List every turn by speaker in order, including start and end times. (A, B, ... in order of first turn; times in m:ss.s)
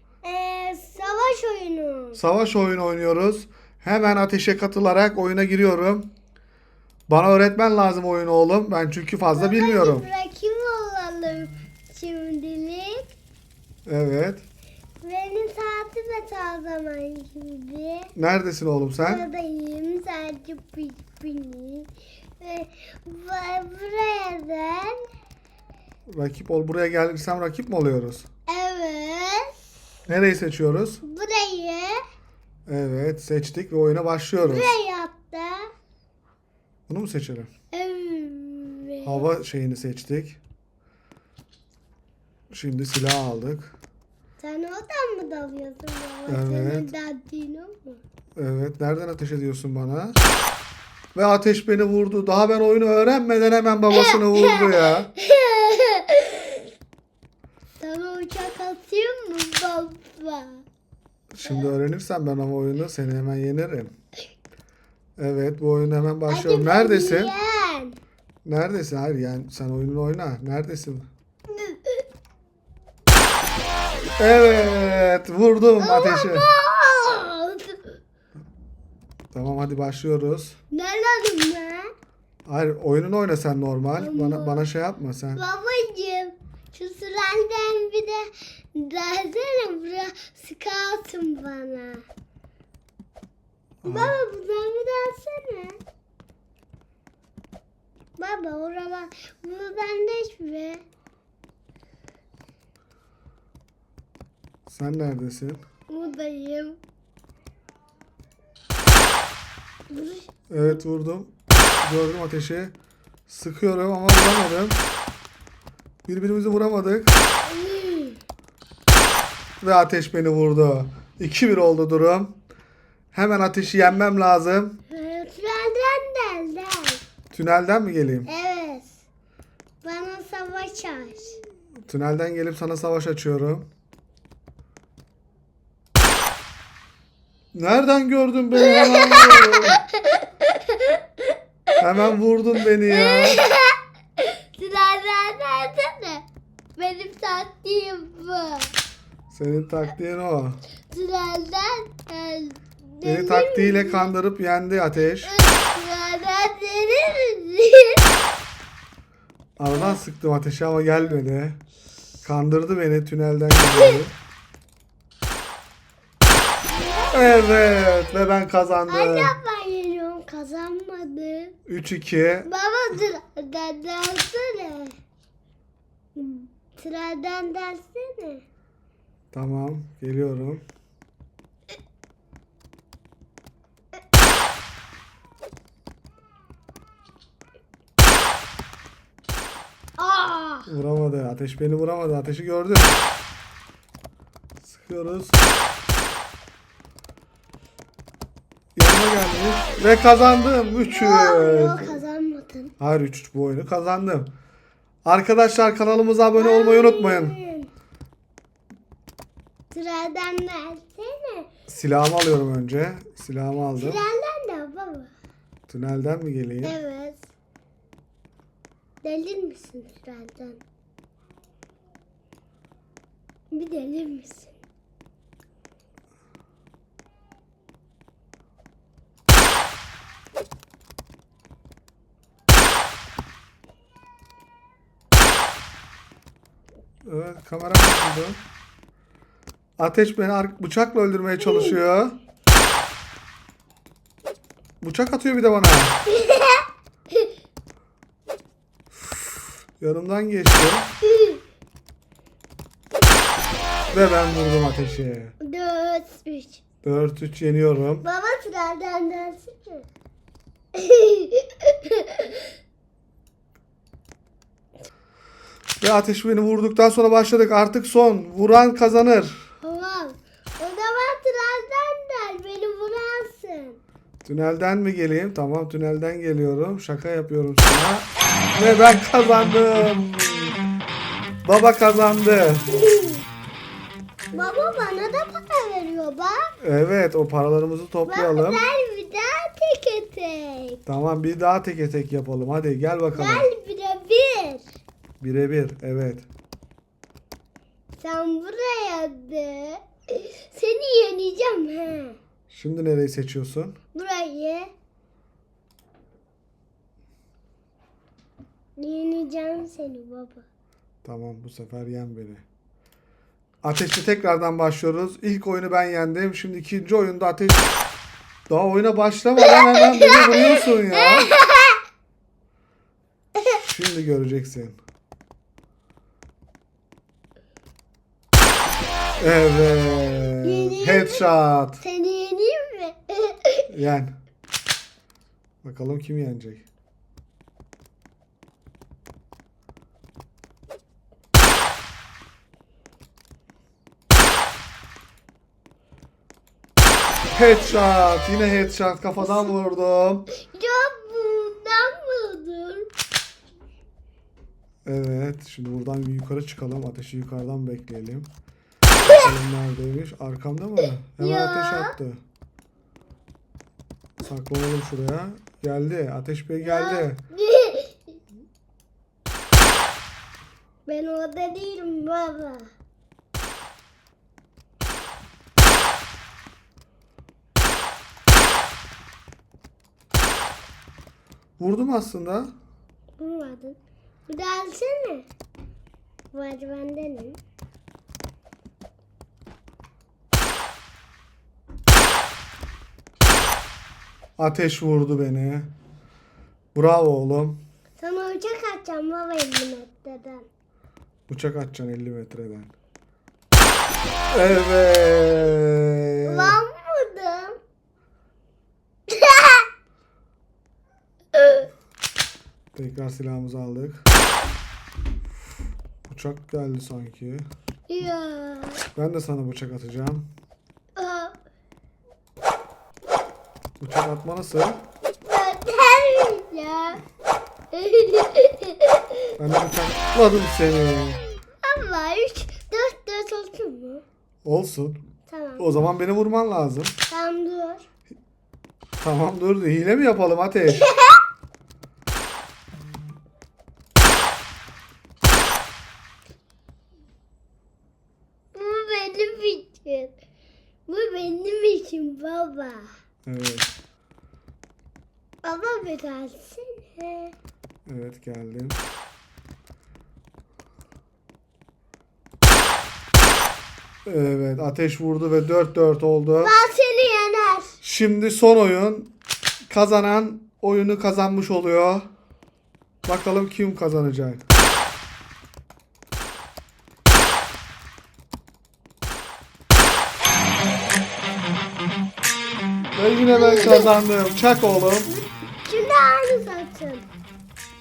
0:00.2-0:02.2 A
0:02.1-0:06.1 B
0:07.1-0:10.0 B
0:09.3-0:13.1 A
0:13.9-0:14.4 B
0:15.0-0:18.1 A
0:18.1-0:19.2 B
0:19.0-0:25.0 A
0:26.1-0:28.2 B
0:28.5-0:29.6 A
0:30.1-0:31.0 B
0:31.0-0:32.0 A
0:32.7-0:34.7 B
0:34.4-0:35.7 A
0:36.9-0:37.5 B
0:37.7-0:39.3 A
0:39.0-0:40.4 B
0:42.5-0:43.7 B
0:44.4-0:48.0 A
0:46.3-0:46.9 B
0:48.4-0:50.2 B
0:51.1-0:55.1 B
0:53.9-0:56.6 A
0:57.8-1:00.6 A
1:01.3-1:03.9 B
1:05.2-1:07.3 B
1:06.3-1:08.0 A
1:08.4-1:11.1 B
1:11.5-1:12.0 A
1:14.2-1:16.5 B
1:15.8-1:17.9 A
1:19.3-1:20.6 B
1:20.7-1:21.9 A
1:22.4-1:25.4 B
1:24.0-1:24.6 A
1:25.3-1:32.0 A
1:33.8-1:34.2 B
1:33.8-1:35.8 A
1:38.2-1:40.8 A
1:44.7-1:45.6 B
1:45.9-1:46.8 A
1:49.9-1:50.3 A
1:50.5-1:52.7 B
1:53.3-1:54.8 B
1:56.0-1:57.2 B
1:57.4-1:58.2 A
1:59.6-2:02.3 B
2:03.1-2:04.8 B
2:04.9-2:07.0 A
2:07.3-2:08.3 B
2:08.3-2:09.0 A
2:09.8-2:11.4 A
2:11.8-2:13.7 B
2:17.5-2:19.8 B
2:18.6-2:21.2 A
2:21.8-2:23.4 B
2:22.8-2:28.7 A
2:29.3-2:30.6 B
2:30.9-2:34.1 A
2:33.0-2:35.3 B
2:35.2-2:38.1 A
2:39.6-2:41.6 B
2:39.7-2:40.0 A
2:42.2-2:44.2 B
2:46.7-2:47.9 A
2:47.1-2:49.3 B
2:48.9-2:51.6 A
2:51.7-2:52.5 B
2:52.5-2:55.0 A
2:56.2-2:58.4 A
2:59.3-3:00.6 B
3:10.0-3:10.7 A
3:10.7-3:13.0 B
3:14.6-3:15.4 B
3:18.8-3:22.0 B
3:20.9-3:22.7 A
3:22.8-3:24.3 B
3:25.0-3:27.3 B
3:26.3-3:27.7 A
3:29.7-3:31.5 A
3:31.7-3:34.0 B
3:33.8-3:35.1 A
3:35.7-3:36.8 B
3:36.6-3:37.3 A
3:39.0-3:40.6 A
3:43.5-3:44.6 A
3:57.0-3:58.4 B
3:59.8-4:02.2 B
4:04.8-4:06.0 B
4:06.1-4:07.3 A
4:09.8-4:10.9 B
4:11.1-4:11.4 A
4:13.9-4:15.3 B
4:15.4-4:16.6 A
4:16.8-4:18.1 B
4:18.0-4:19.9 A
4:20.7-4:22.5 A
4:25.8-4:29.4 B
4:29.6-4:33.8 A
4:34.2-4:40.6 B
4:41.4-4:42.6 B
4:42.7-4:43.2 A
4:44.3-4:46.5 A
4:46.6-4:48.6 B
4:48.1-4:50.8 A
4:50.8-4:53.5 B
4:53.1-4:54.6 A
4:55.2-4:56.2 B
4:58.0-5:02.2 A
5:02.5-5:03.8 B
5:03.9-5:04.7 A
5:08.8-5:10.4 A
5:11.0-5:12.4 B
5:13.6-5:17.7 B
5:18.5-5:21.3 B
5:19.4-5:21.8 A
5:23.6-5:24.8 B
5:29.2-5:31.8 B
5:30.4-5:31.3 A
5:31.8-5:33.7 A
5:33.7-5:34.1 B
5:35.6-5:36.6 B
5:47.3-5:50.3 B
5:49.2-5:49.5 A
5:50.4-5:52.9 A
5:54.8-5:58.3 B
5:59.0-5:59.3 A
5:59.0-6:02.2 B
6:01.2-6:01.9 A
6:04.2-6:07.2 B
6:06.6-6:07.9 A
6:10.8-6:12.7 A
6:21.6-6:22.5 B
6:23.2-6:23.8 A
6:24.3-6:25.3 A
6:26.3-6:27.4 A
6:34.4-6:35.7 B
6:36.8-6:37.6 B
6:38.0-6:40.4 A
6:41.3-6:42.7 B
6:44.3-6:46.6 B
6:46.2-6:47.6 A
6:49.1-6:49.7 A
6:51.3-6:51.7 A
6:52.7-6:54.1 B
6:56.1-6:57.5 B
6:57.9-6:58.8 A
6:58.9-7:00.3 B
7:00.9-7:01.4 A
7:03.8-7:04.8 B
7:05.2-7:07.0 A
7:07.7-7:09.0 A
7:09.4-7:11.2 B
7:11.6-7:14.0 A
7:14.4-7:15.0 B
7:15.3-7:15.7 A
7:15.6-7:17.0 B
7:17.1-7:17.8 A
7:19.0-7:20.8 B
7:20.7-7:21.2 A
7:28.5-7:30.1 A
7:30.9-7:32.9 A
7:33.2-7:33.7 B
7:35.4-7:37.3 A
7:37.8-7:38.8 B
7:44.0-7:46.6 B
7:46.4-7:47.8 A
7:47.8-7:49.1 B
7:49.7-7:52.1 B
7:53.0-7:54.4 B
8:02.9-8:05.1 B
8:03.3-8:03.9 A
8:05.1-8:07.1 A